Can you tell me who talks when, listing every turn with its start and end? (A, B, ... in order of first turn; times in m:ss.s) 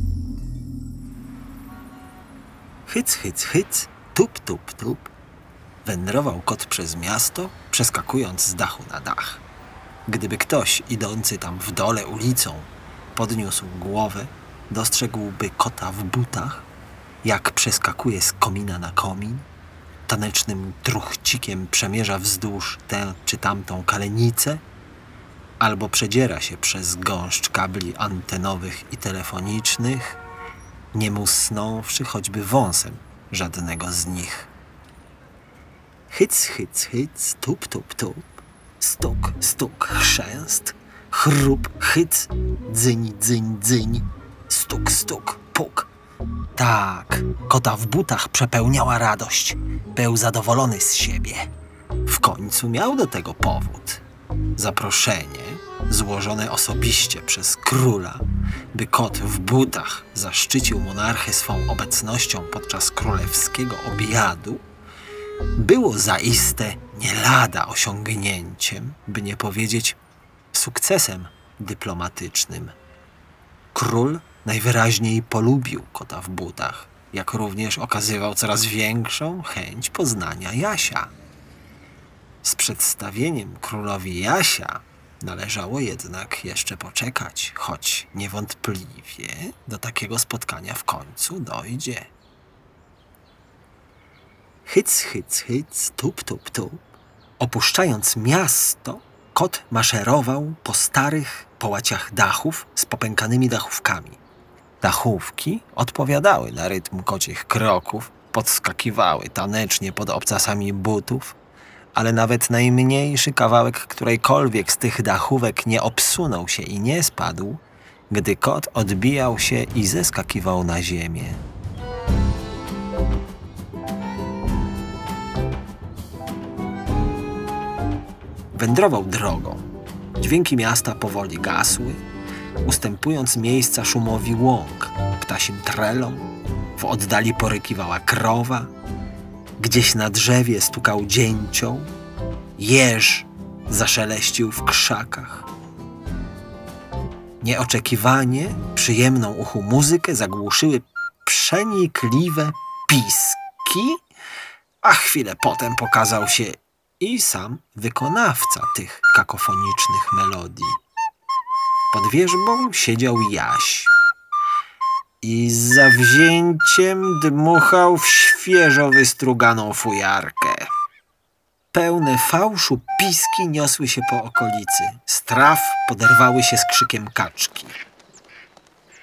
0:02.9-0:05.1 A
0:05.8-0:09.4 A
0:10.1-0:16.7 A
0:17.2-0:19.5 A
0:20.1-0:24.6 A
0:25.6-0:30.2 A
0:30.9-0:34.5 A
0:36.1-0:38.2 A
0:38.8-0:45.9 A
0:46.5-0:51.5 A
0:52.0-0:54.0 A
0:54.6-1:04.6 A
1:05.6-1:10.0 A
1:10.5-1:12.7 A
1:13.7-1:21.1 A
1:22.4-1:32.1 A
1:34.6-1:36.8 A
1:37.4-1:44.2 A
1:44.8-1:51.4 A
1:51.9-2:01.4 A
2:08.5-2:09.6 A
2:10.2-2:12.0 A
2:12.6-2:18.7 A
2:19.6-2:21.9 A
2:22.6-2:25.5 A
2:27.4-2:34.0 A
2:34.8-2:40.8 A
2:41.9-2:43.9 A
2:45.2-2:50.7 A
2:51.7-2:57.8 A